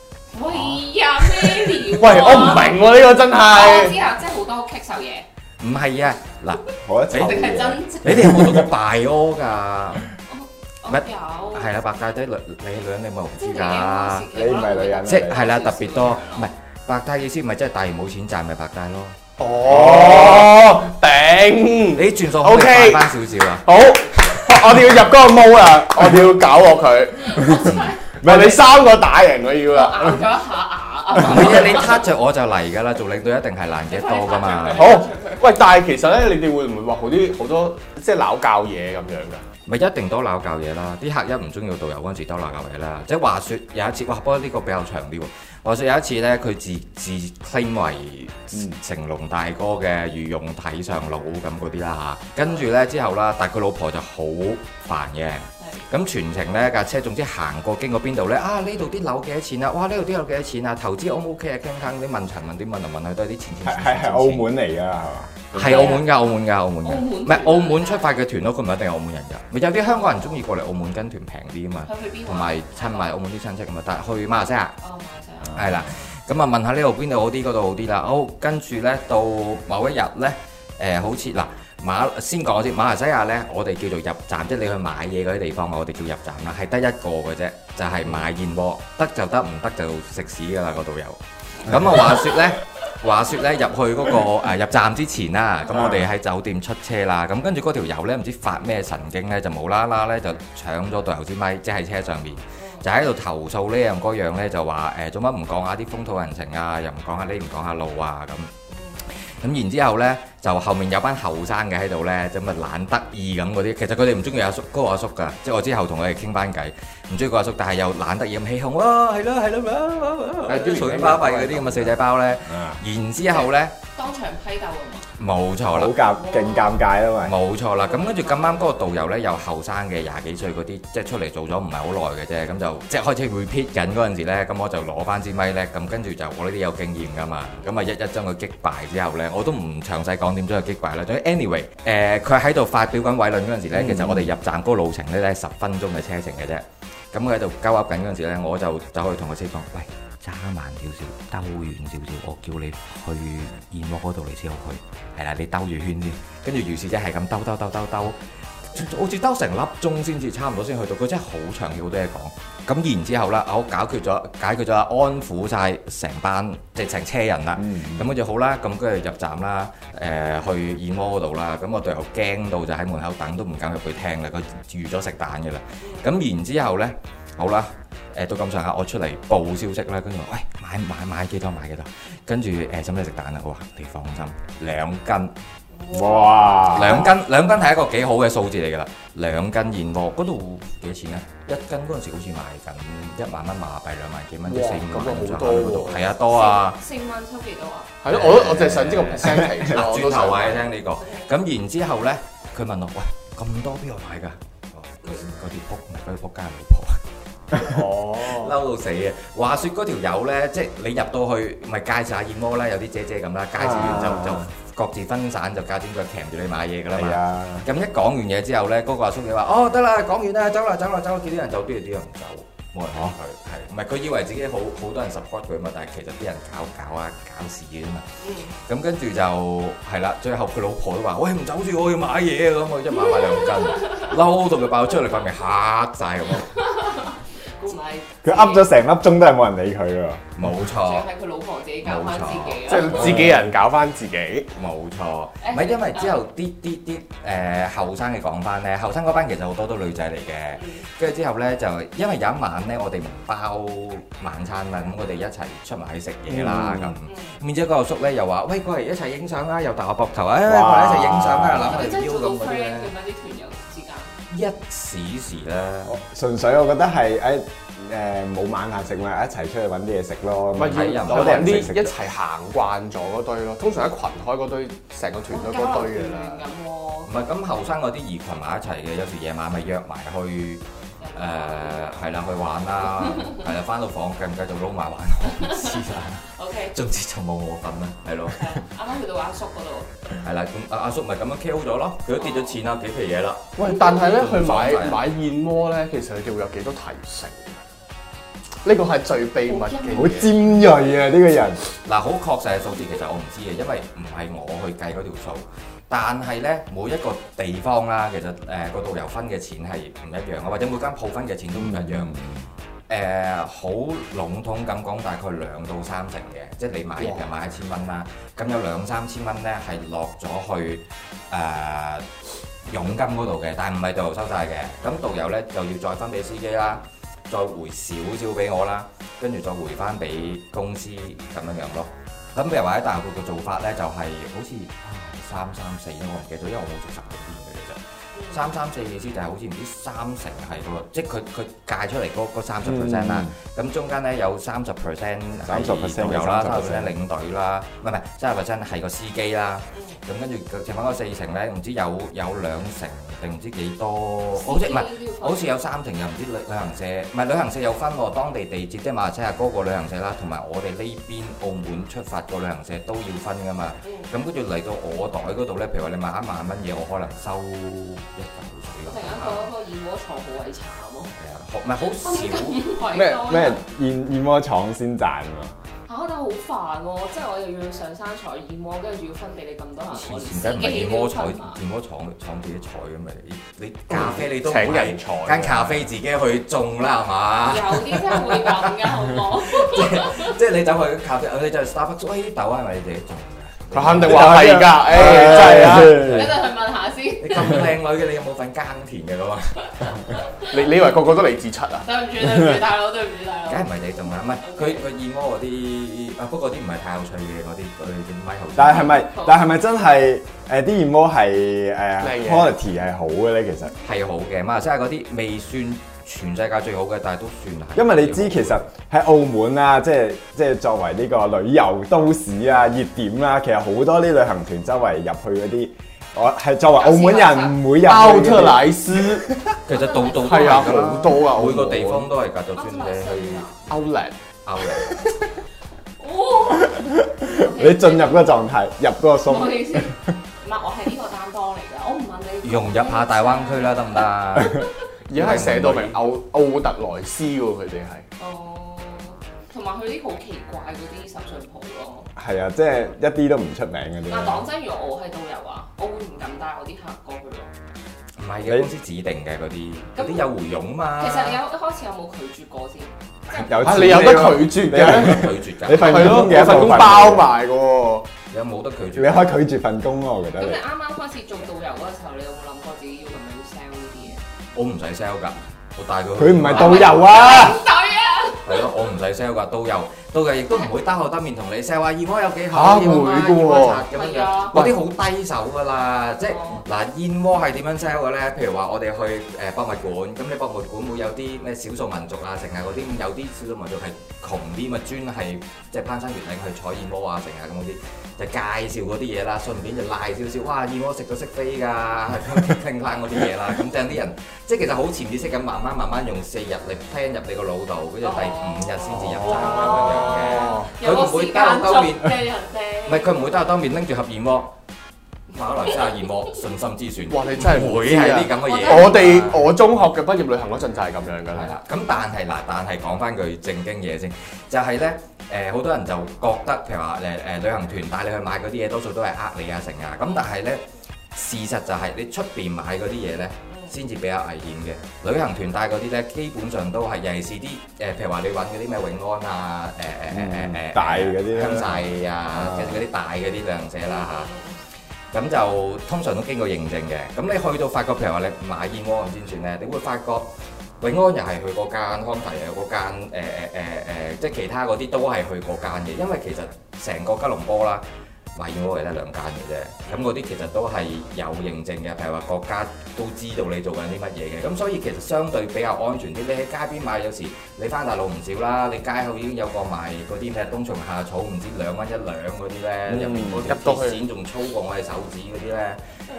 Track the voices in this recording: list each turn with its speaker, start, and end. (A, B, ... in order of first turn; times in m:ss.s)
0:00.3-0:02.9 A
0:00.5-0:00.8 B
0:01.7-0:04.0 C
0:03.4-0:05.3 A
0:05.6-0:10.1 B
0:06.8-0:08.7 D
0:07.1-0:08.4 A
0:10.3-0:11.7 A
0:10.9-0:14.3 B
0:13.4-0:16.5 A
0:14.3-0:15.6 D
0:15.0-0:19.2 B
0:19.4-0:27.7 C
0:19.7-0:20.6 D
0:21.9-0:23.7 B
0:27.2-0:28.0 A
0:28.2-0:30.2 C
0:28.2-0:28.6 D
0:29.7-0:32.0 A
0:31.2-0:35.1 B
0:33.9-0:35.5 A
0:34.6-0:39.4 C
0:39.7-1:04.5 B
0:52.4-0:52.7 A
1:03.6-1:06.0 D
1:05.5-1:14.8 B
1:05.6-1:06.2 A
1:06.8-1:08.2 A
1:09.8-1:10.4 A
1:11.8-1:13.1 A
1:14.8-1:15.6 A
1:15.5-1:48.5 B
1:35.6-1:35.9 A
1:35.7-1:36.0 D
1:42.6-1:42.9 A
1:48.7-1:49.0 A
1:49.1-2:03.7 B
2:00.5-2:01.9 C
2:02.5-2:02.8 D
2:03.3-2:05.1 A
2:05.2-2:06.0 B
2:05.7-2:07.4 D
2:06.1-2:06.8 A
2:07.2-3:05.3 B
2:07.8-2:08.7 A
2:23.7-2:24.3 D
2:47.6-2:48.2 D
2:55.8-2:56.1 A
3:05.7-3:07.0 A
3:05.9-3:07.1 D
3:06.7-3:16.8 B
3:14.5-3:16.1 C
3:16.3-3:17.9 A
3:18.0-3:20.7 C
3:18.1-3:27.0 B
3:21.0-3:21.3 A
3:27.5-3:28.6 C
3:28.2-3:48.1 B
3:33.6-3:34.5 D
3:36.9-3:37.7 D
3:48.2-3:48.6 A
3:48.6-3:56.5 B
3:52.9-3:54.1 A
3:56.4-3:58.7 A
3:58.2-4:00.6 D
4:00.4-4:01.1 B
4:00.8-4:03.0 A
4:01.8-4:03.3 B
4:02.6-4:04.5 C
4:03.0-4:03.4 D
4:04.6-4:22.9 B
4:05.4-4:06.2 A
4:10.5-4:10.9 A
4:16.3-4:17.0 D
4:17.1-4:17.4 A
4:20.5-4:21.7 D
4:21.6-4:24.2 A
4:24.3-4:26.0 B
4:25.9-4:31.9 D
4:30.6-4:36.4 C
4:30.6-4:31.7 B
4:35.3-4:37.1 A
4:37.1-4:40.6 B
4:41.0-4:42.0 A
4:41.2-4:48.6 B
4:42.8-4:43.4 A
4:45.3-4:46.8 A
4:48.3-4:49.9 A
4:50.2-4:55.1 B
4:52.2-4:52.6 A
4:53.6-4:57.6 C
4:53.6-4:54.2 A
4:58.6-5:00.4 C
4:59.4-5:00.3 A
4:59.9-5:01.6 D
5:01.8-5:12.1 B
5:11.6-5:12.5 D
5:12.9-5:22.1 B
5:17.0-5:17.3 C
5:22.7-6:09.5 B
5:38.1-5:38.4 A
5:42.6-5:43.3 D
5:45.4-5:46.9 D
5:49.7-5:50.0 A
5:54.4-5:55.5 A
6:03.8-6:04.1 A
6:08.9-6:11.2 A
6:11.2-6:12.8 B
6:12.0-6:13.6 A
6:12.9-6:15.5 D
6:15.9-6:21.6 A
6:19.9-6:35.6 B
6:23.9-6:25.9 C
6:27.5-6:30.4 A
6:33.7-6:36.2 C
6:34.0-6:36.4 D
6:35.4-6:37.7 A
6:37.2-6:40.1 B
6:39.8-6:40.6 A
6:40.5-6:41.9 C
6:41.8-6:43.7 A
6:43.5-6:49.0 B
6:44.4-6:44.8 A
6:48.6-6:53.7 D
6:48.7-6:49.4 A
6:52.0-6:52.6 C
6:53.8-6:58.6 B
6:57.8-7:09.6 D
7:06.8-7:07.7 A
7:07.8-7:09.3 C
7:09.7-7:13.5 B
7:09.7-7:10.7 A
7:10.1-7:12.1 C
7:12.6-7:13.6 A
7:13.7-7:14.2 C
7:14.4-7:15.0 B
7:16.0-7:18.4 A
7:16.6-7:20.1 D
7:19.3-7:24.7 A
7:22.4-7:26.0 B
7:25.1-7:28.1 C
7:28.2-7:32.1 A
7:32.2-7:34.5 D
7:34.1-7:37.5 A
7:38.2-7:41.4 B
7:38.5-7:38.7 D
7:40.0-7:40.3 A
7:41.0-7:43.5 A
7:43.3-7:47.3 D
7:43.6-7:48.1 C
7:44.6-7:46.7 B
7:48.3-7:49.3 B
7:49.0-7:50.6 D
7:50.4-7:54.2 A
7:54.5-7:57.4 B
7:56.2-7:57.6 D
7:56.5-7:58.7 A
7:58.4-8:32.2 B
8:02.5-8:03.9 C
8:03.9-8:04.6 A
8:04.5-8:04.8 C
8:06.3-8:06.6 A
8:28.0-8:33.4 A
8:29.0-8:30.7 C
8:32.9-8:34.5 B
8:35.3-8:39.5 B
8:37.1-8:41.5 C
8:38.4-8:39.2 A
8:41.3-9:04.3 B
8:53.5-8:53.8 A
9:00.1-9:02.8 D
9:03.8-9:04.6 A
9:05.1-9:17.8 B
9:18.4-9:35.8 B
9:32.9-9:33.5 D
9:33.4-9:34.0 C